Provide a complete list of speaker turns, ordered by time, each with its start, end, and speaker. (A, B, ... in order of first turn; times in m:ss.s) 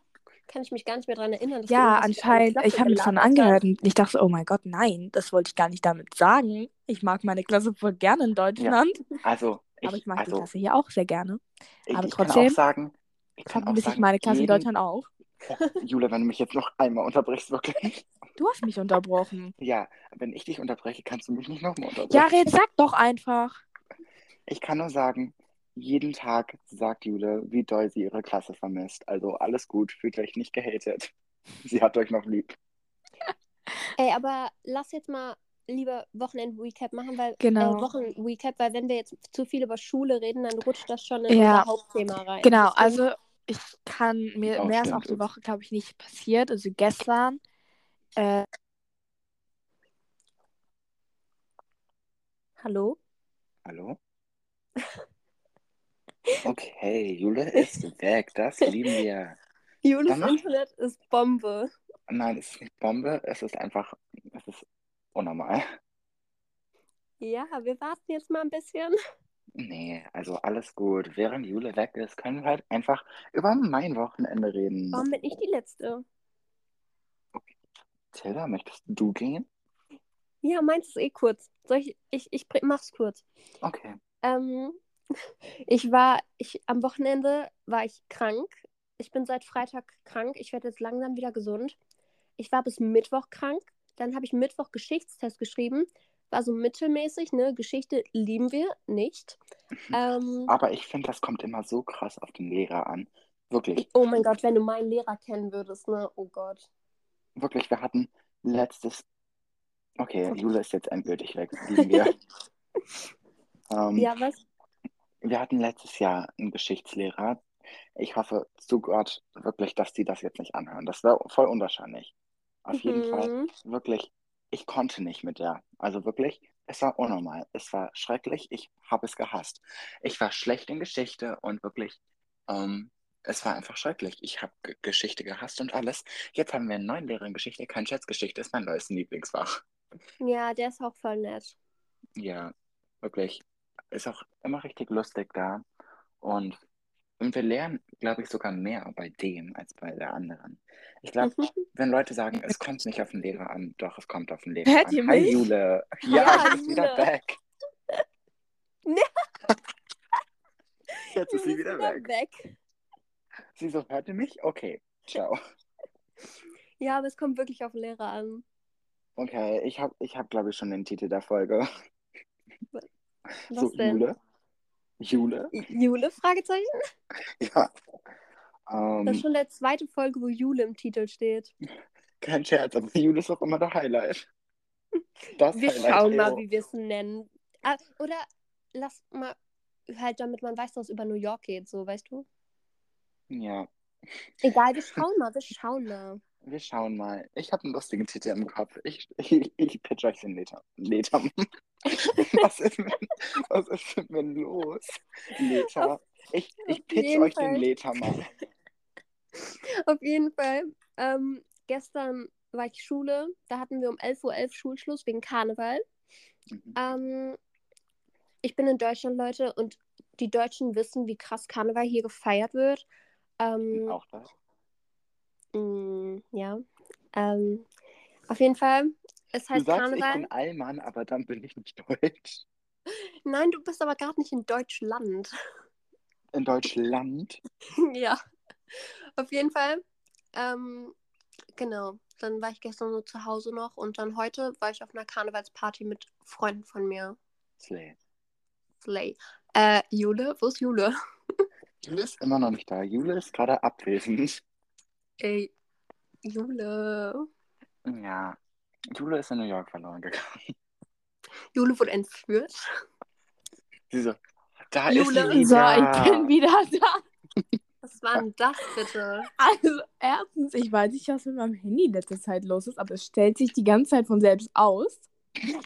0:00.5-0:03.6 A
0:01.7-0:09.0 B
0:08.6-0:10.5 C
0:09.8-0:11.4 B
0:11.9-0:14.7 C
0:11.9-0:12.6 B
0:13.5-0:15.1 B
0:15.4-0:18.0 C
0:18.4-0:19.5 B
0:19.6-0:22.3 C
0:22.1-0:23.6 B
0:24.5-0:32.6 C
0:34.0-0:43.0 A
0:37.4-0:37.9 B
0:41.3-0:41.7 B
0:42.4-0:47.4 B
0:44.5-0:45.3 C
0:48.2-0:48.4 B
0:52.6-0:53.0 A
0:53.6-0:54.0 C
0:56.4-0:59.4 C
0:58.6-0:59.0 A
0:59.8-1:01.7 A
1:00.1-1:00.4 C
1:02.1-1:05.6 C
1:07.2-1:09.0 A
1:09.6-1:15.0 C
1:14.9-1:16.0 A
1:18.1-1:19.5 C
1:20.4-1:23.2 A
1:23.6-1:24.0 C
1:24.2-1:24.8 A
1:25.7-1:31.8 A
1:32.4-1:39.4 A
1:39.9-1:40.5 A
1:40.5-1:43.9 C
1:43.8-1:46.7 A
1:47.4-1:49.0 C
1:50.0-1:52.2 C
1:51.8-1:52.1 A
1:53.7-1:54.1 C
1:54.0-1:54.4 A
1:55.2-1:57.4 C
1:58.0-2:02.1 C
2:02.6-2:19.6 C
2:02.7-2:03.5 A
2:20.2-2:21.6 A
2:22.2-2:25.6 C
2:26.2-2:26.5 C
2:27.2-2:37.4 C
2:31.2-2:31.5 A
2:34.6-2:35.4 B
2:36.1-2:37.0 A
2:36.1-2:36.4 B
2:38.8-2:39.3 A
2:41.0-2:42.6 A
2:41.1-2:42.1 C
2:43.5-2:45.4 C
2:46.8-2:48.4 A
2:49.2-2:51.7 C
2:53.5-2:54.0 A
2:53.5-2:54.2 C
2:55.0-2:55.5 C
2:55.5-2:56.7 A
2:57.4-2:57.7 C
2:58.7-2:59.2 C
2:59.1-3:01.5 A
3:02.2-3:04.3 C
3:05.3-3:06.4 C
3:05.5-3:09.4 A
3:09.9-3:12.2 A
3:13.3-3:14.3 C
3:14.4-3:16.2 A
3:16.4-3:28.3 C
3:26.7-3:28.2 A
3:29.4-3:35.8 A
3:36.5-3:36.8 C
3:36.8-3:37.4 A
3:38.4-3:42.8 A
3:43.4-3:44.0 A
3:43.7-3:44.3 C
3:45.5-3:46.6 A
3:47.1-3:47.7 A
3:48.3-3:50.3 A
3:49.5-3:52.4 C
3:53.2-3:55.3 A
3:56.3-3:57.4 C
3:57.8-3:58.2 A
3:58.7-3:59.8 A
4:00.3-4:00.9 A
4:01.5-4:07.2 A
4:07.6-4:08.0 C
4:08.8-4:11.4 A
4:11.8-4:14.4 C
4:15.2-4:15.5 A
4:16.2-4:17.3 A
4:17.8-4:18.4 C
4:18.9-4:20.5 C
4:21.5-4:22.6 A
4:23.9-4:24.2 C
4:24.7-4:26.3 C
4:24.9-4:25.4 A
4:25.3-4:27.0 B
4:27.8-4:29.3 A
4:29.4-4:35.1 B